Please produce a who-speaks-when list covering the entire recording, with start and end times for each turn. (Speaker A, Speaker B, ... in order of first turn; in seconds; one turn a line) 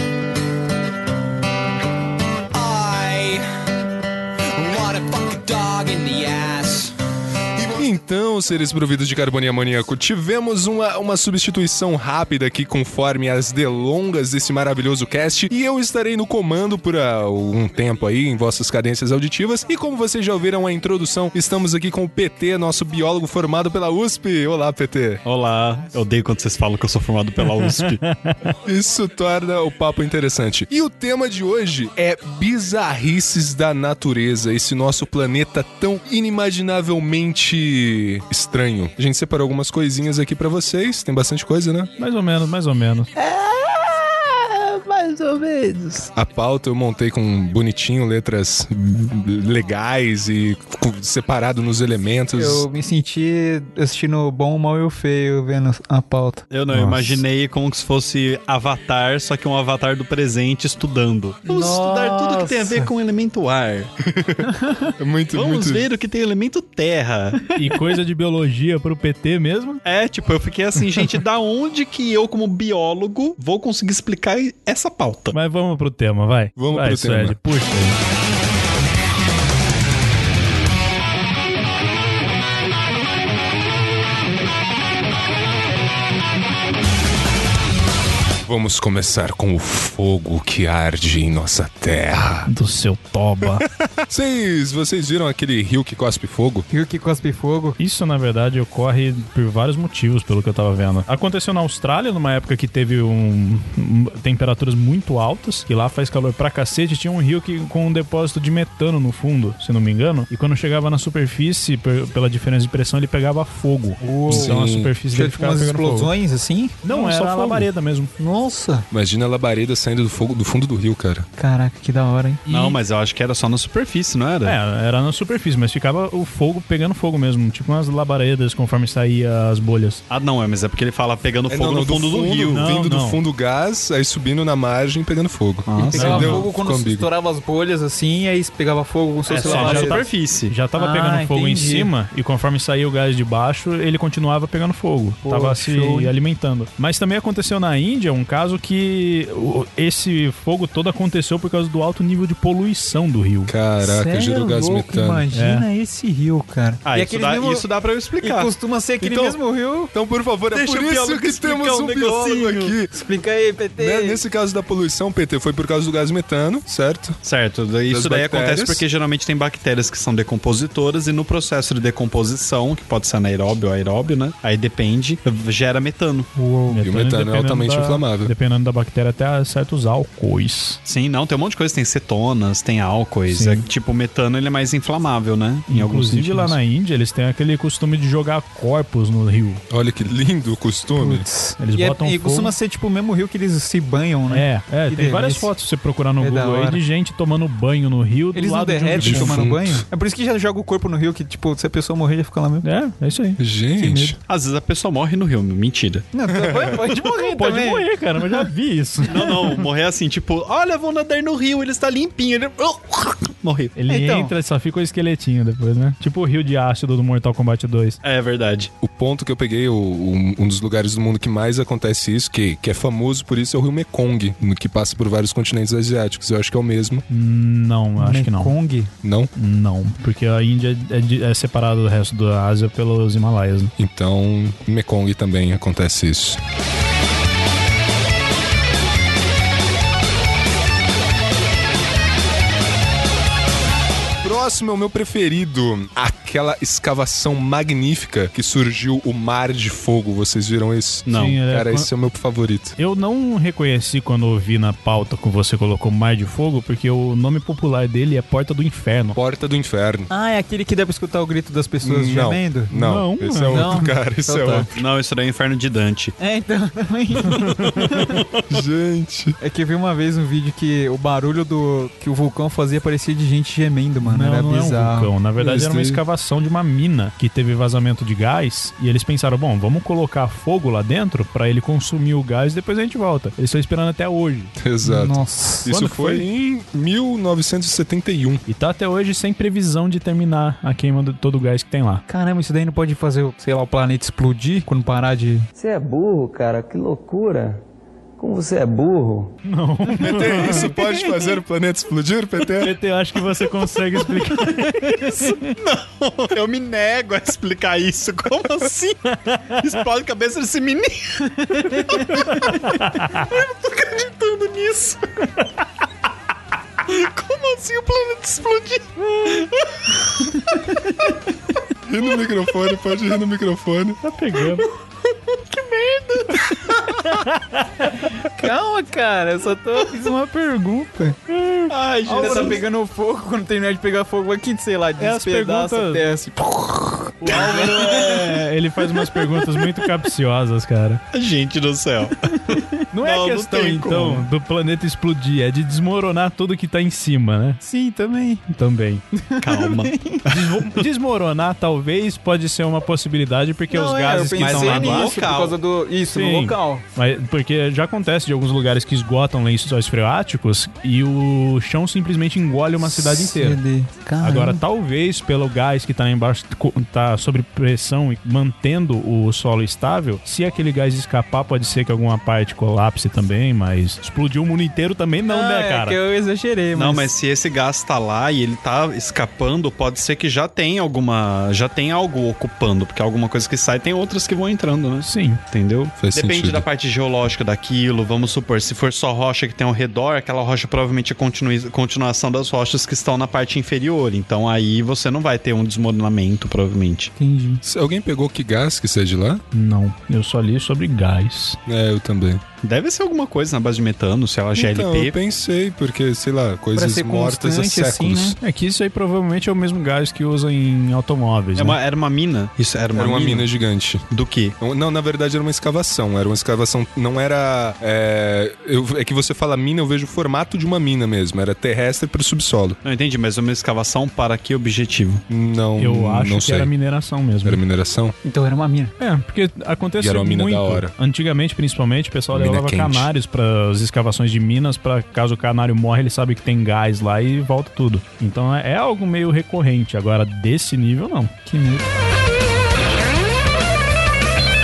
Speaker A: 2.5-3.5
Speaker A: 4.6-6.9
Speaker A: 7.6-7.9
Speaker B: 7.8-25.2
Speaker C: 25.2-28.0
Speaker D: 27.6-28.4
Speaker B: 28.6-41.9
Speaker D: 42.0-43.1
Speaker E: 43.2-46.1
Speaker B: 46.1-52.7
Speaker E: 52.3-56.5
Speaker C: 56.5-63.9
Speaker D: 56.7-57.2
Speaker E: 61.5-62.9
Speaker B: 64.1-64.5
Speaker E: 64.4-64.9
Speaker B: 65.0-65.8
Speaker C: 65.3-67.5
Speaker D: 67.5-69.8
Speaker C: 69.8-75.3
Speaker D: 75.3-78.0
Speaker B: 76.6-77.4
Speaker B: 88.5-92.5
Speaker D: 92.5-93.7
Speaker B: 93.7-96.7
Speaker E: 96.7-97.8
Speaker D: 97.8-116.1
Speaker E: 114.0-118.9
Speaker B: 114.3-114.9
Speaker D: 116.8-118.1
Speaker B: 118.9-121.3
Speaker E: 121.4-122.4
Speaker D: 122.5-122.8
Speaker C: 122.5-124.6
Speaker D: 124.4-130.0
Speaker C: 130.1-132.7
Speaker B: 131.5-137.1
Speaker D: 132.6-133.2
Speaker C: 135.7-136.4
Speaker E: 135.8-140.0
Speaker D: 136.0-136.5
Speaker C: 139.3-140.6
Speaker D: 139.4-153.5
Speaker E: 140.7-141.9
Speaker E: 145.2-146.2
Speaker B: 153.5-155.2
Speaker E: 153.8-157.7
Speaker D: 155.3-155.7
Speaker C: 156.8-158.5
Speaker E: 158.2-159.9
Speaker B: 159.0-159.4
Speaker B: 159.9-162.9
Speaker E: 160.5-164.2
Speaker B: 163.8-167.2
Speaker C: 167.2-176.3
Speaker B: 167.9-168.8
Speaker E: 176.3-176.8
Speaker D: 176.7-180.8
Speaker B: 176.8-178.3
Speaker C: 180.9-186.6
Speaker D: 183.3-183.7
Speaker D: 185.7-189.6
Speaker B: 189.7-191.3
Speaker E: 190.9-195.5
Speaker D: 191.6-192.6
Speaker D: 194.3-199.5
Speaker E: 196.2-196.8
Speaker E: 198.3-202.7
Speaker B: 199.0-199.8
Speaker D: 202.6-203.4
Speaker B: 203.4-204.2
Speaker E: 203.8-204.2
Speaker C: 204.3-206.1
Speaker E: 206.1-208.5
Speaker B: 206.4-206.8
Speaker D: 207.0-209.6
Speaker C: 209.1-213.8
Speaker D: 213.8-218.0
Speaker E: 213.9-214.3
Speaker C: 218.0-218.7
Speaker B: 218.8-227.0
Speaker D: 227.1-228.6
Speaker E: 228.0-228.9
Speaker B: 229.0-229.3
Speaker D: 229.4-233.7
Speaker B: 233.8-236.4
Speaker B: 244.2-252.8
Speaker C: 251.1-251.3
Speaker D: 251.1-251.9
Speaker D: 252.8-259.2
Speaker B: 259.1-260.1
Speaker E: 260.1-262.7
Speaker B: 261.8-264.7
Speaker D: 262.7-263.9
Speaker E: 263.5-264.7
Speaker C: 264.7-266.1
Speaker E: 266.2-268.2
Speaker B: 268.5-269.4
Speaker E: 269.4-275.1
Speaker D: 274.0-284.5
Speaker B: 275.4-276.0
Speaker B: 284.6-288.4
Speaker E: 284.8-285.7
Speaker D: 285.7-286.2
Speaker D: 288.5-292.0
Speaker E: 292.1-295.5
Speaker F: 295.6-297.6
Speaker F: 298.2-299.4
Speaker D: 299.4-300.7
Speaker E: 299.9-301.4
Speaker B: 300.0-302.8
Speaker D: 302.6-305.1
Speaker E: 304.3-305.5
Speaker C: 305.4-309.0
Speaker D: 309.1-309.7
Speaker C: 309.6-311.3
Speaker E: 311.4-312.2
Speaker C: 312.0-312.6
Speaker D: 312.1-313.3
Speaker C: 313.2-315.2
Speaker C: 316.9-318.9
Speaker E: 320.0-321.2
Speaker B: 321.9-324.0
Speaker D: 324.0-324.7
Speaker C: 325.5-326.4
Speaker E: 326.3-327.2
Speaker D: 327.1-327.9
Speaker E: 328.1-331.2
Speaker D: 331.3-332.6
Speaker C: 331.7-332.6
Speaker E: 332.1-338.3
Speaker D: 335.0-336.1
Speaker D: 337.2-341.0
Speaker C: 337.3-338.2
Speaker C: 341.1-344.3
Speaker D: 342.9-347.6
Speaker E: 347.6-348.4
Speaker D: 348.5-349.0
Speaker E: 349.2-350.2
Speaker C: 349.4-349.9
Speaker D: 350.3-355.1
Speaker E: 353.7-356.8
Speaker C: 354.4-355.6
Speaker D: 356.1-363.6
Speaker E: 362.8-364.6
Speaker D: 364.2-376.0
Speaker E: 375.3-377.1
Speaker C: 376.7-397.1
Speaker D: 385.0-385.4
Speaker B: 386.0-386.6
Speaker E: 397.2-397.6
Speaker B: 397.6-399.4
Speaker D: 399.5-401.6
Speaker B: 401.7-402.4
Speaker C: 402.6-405.1
Speaker B: 404.6-408.4
Speaker E: 406.8-408.4
Speaker D: 408.4-411.8
Speaker C: 411.6-413.5
Speaker B: 412.9-414.0
Speaker C: 414.1-414.5
Speaker B: 414.6-422.8
Speaker C: 422.8-425.2
Speaker B: 425.3-426.7
Speaker D: 425.8-427.6
Speaker B: 427.4-428.1
Speaker E: 428.2-428.9
Speaker D: 429.0-441.3
Speaker B: 430.0-430.9
Speaker B: 432.3-433.1
Speaker E: 441.5-441.9